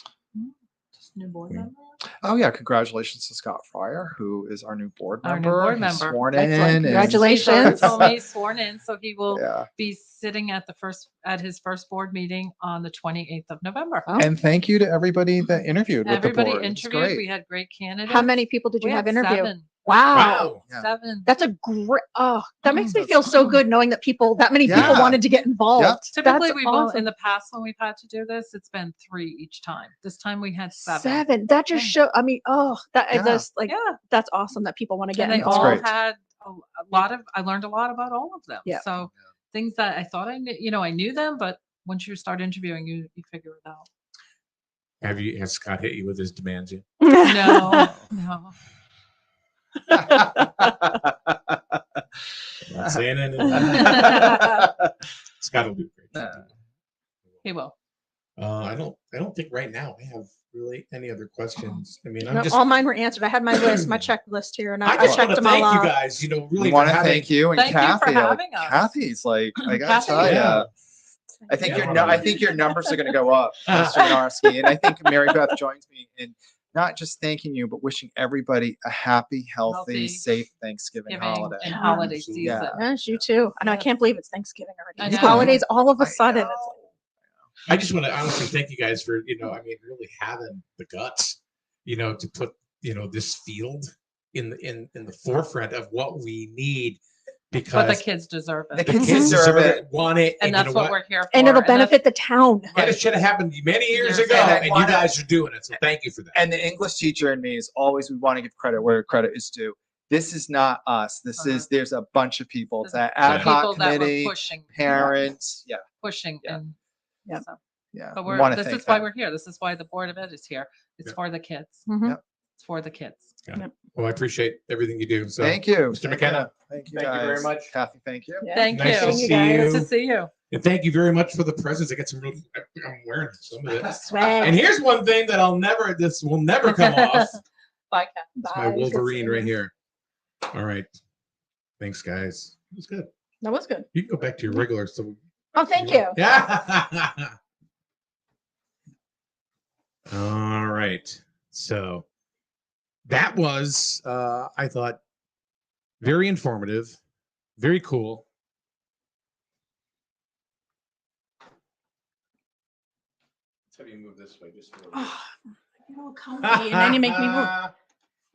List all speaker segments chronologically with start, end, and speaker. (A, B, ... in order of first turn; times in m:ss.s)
0:00.3-0:02.0 A
0:02.2-0:08.1 B
0:05.2-0:14.2 A
0:06.3-0:08.0 C
0:09.3-0:09.7 B
0:14.2-0:17.2 B
0:16.0-0:21.3 A
0:18.1-0:20.5 C
0:20.1-0:20.6 D
0:21.2-0:27.1 C
0:22.7-0:23.6 A
0:22.8-0:23.4 B
0:24.6-0:25.2 B
0:24.7-0:25.1 D
0:25.8-0:26.0 B
0:26.1-0:31.9 A
0:30.7-0:35.8 C
0:33.1-0:33.5 B
0:33.7-0:34.0 A
0:35.1-0:43.9 A
0:35.3-0:35.9 B
0:45.0-0:46.8 D
0:47.0-0:47.9 C
0:47.2-0:48.5 A
0:49.9-0:50.4 C
0:50.1-0:51.3 B
0:52.7-0:54.5 D
0:53.5-0:54.7 B
0:55.4-0:56.4 D
0:56.1-0:56.4 B
0:57.4-0:57.8 A
0:58.4-1:02.7 D
1:02.2-1:05.9 C
1:03.5-1:04.1 D
1:04.8-1:07.3 D
1:05.0-1:05.3 B
1:06.6-1:10.7 B
1:07.5-1:08.9 A
1:09.6-1:10.4 A
1:10.2-1:10.7 D
1:11.5-1:23.2 B
1:11.5-1:13.1 C
1:11.6-1:12.4 D
1:13.7-1:14.2 D
1:14.0-1:15.1 C
1:19.7-1:20.2 A
1:21.1-1:22.8 A
1:21.7-1:22.2 C
1:22.1-1:22.6 D
1:22.7-1:26.7 C
1:23.6-1:23.9 A
1:25.0-1:25.6 A
1:25.0-1:26.9 B
1:27.7-1:37.0 D
1:37.5-1:38.0 D
1:37.7-1:39.0 A
1:38.7-1:39.8 B
1:38.8-1:41.0 D
1:38.9-1:39.4 C
1:40.4-1:42.0 A
1:41.3-1:42.7 C
1:42.7-1:46.4 D
1:43.9-1:44.6 A
1:44.3-1:45.1 B
1:46.3-1:55.8 B
1:51.4-1:51.7 A
1:52.8-1:54.9 A
1:53.2-1:53.6 D
1:56.0-1:56.8 A
1:57.9-1:59.1 B
1:58.1-2:01.8 A
2:01.9-2:02.2 C
2:02.6-2:03.3 A
2:03.4-2:07.7 D
2:05.4-2:08.4 B
2:08.4-2:09.8 C
2:08.5-2:10.3 A
2:08.7-2:09.9 D
2:10.5-2:17.4 D
2:14.1-2:14.6 C
2:16.7-2:17.3 A
2:17.9-2:18.2 A
2:18.3-2:19.5 C
2:18.5-2:19.7 D
2:20.5-2:20.9 D
2:21.8-2:23.1 D
2:23.4-2:23.9 C
2:23.9-2:25.2 D
2:25.5-2:26.2 C
2:25.7-2:27.3 D
2:30.1-2:32.0 D
2:33.1-2:35.0 D
2:36.0-2:37.0 D
2:37.6-2:38.2 D
2:43.7-2:45.1 D
2:44.9-2:47.6 C
2:46.4-2:47.7 D